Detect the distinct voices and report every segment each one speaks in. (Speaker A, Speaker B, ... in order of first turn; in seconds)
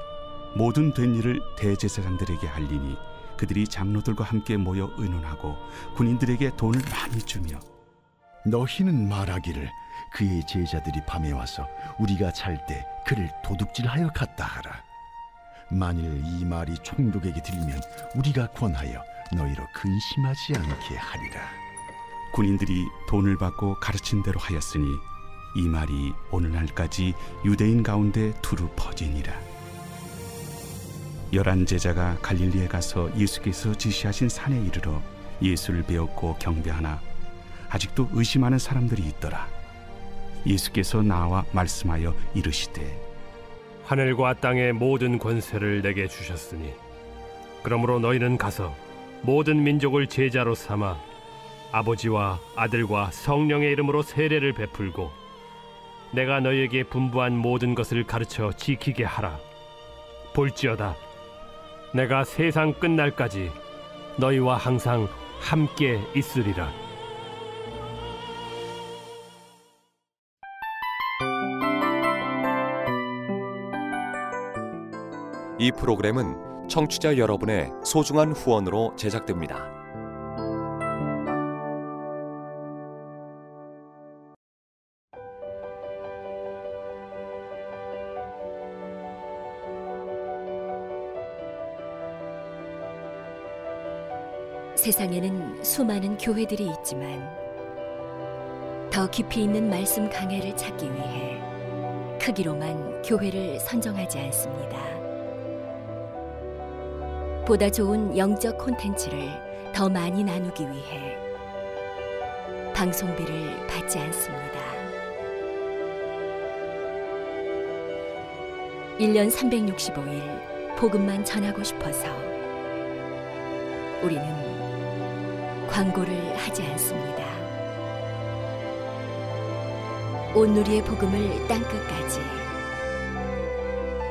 Speaker A: 0.5-7.6, 22.3-29.4, 31.3-37.0, 37.7-39.5, 40.4-43.0
Speaker B: 8.4-14.8, 15.7-21.6
Speaker C: 43.8-46.8, 47.6-51.0, 51.7-55.2, 56.1-59.4, 60.3-61.0, 61.9-63.6, 64.2-66.8
Speaker D: 75.6-79.7
Speaker E: 94.8-97.3, 98.9-101.4, 102.2-105.0, 107.4-111.2, 112.7-114.9, 119.0-122.3, 124.0-124.6, 125.7-127.5, 130.3-132.5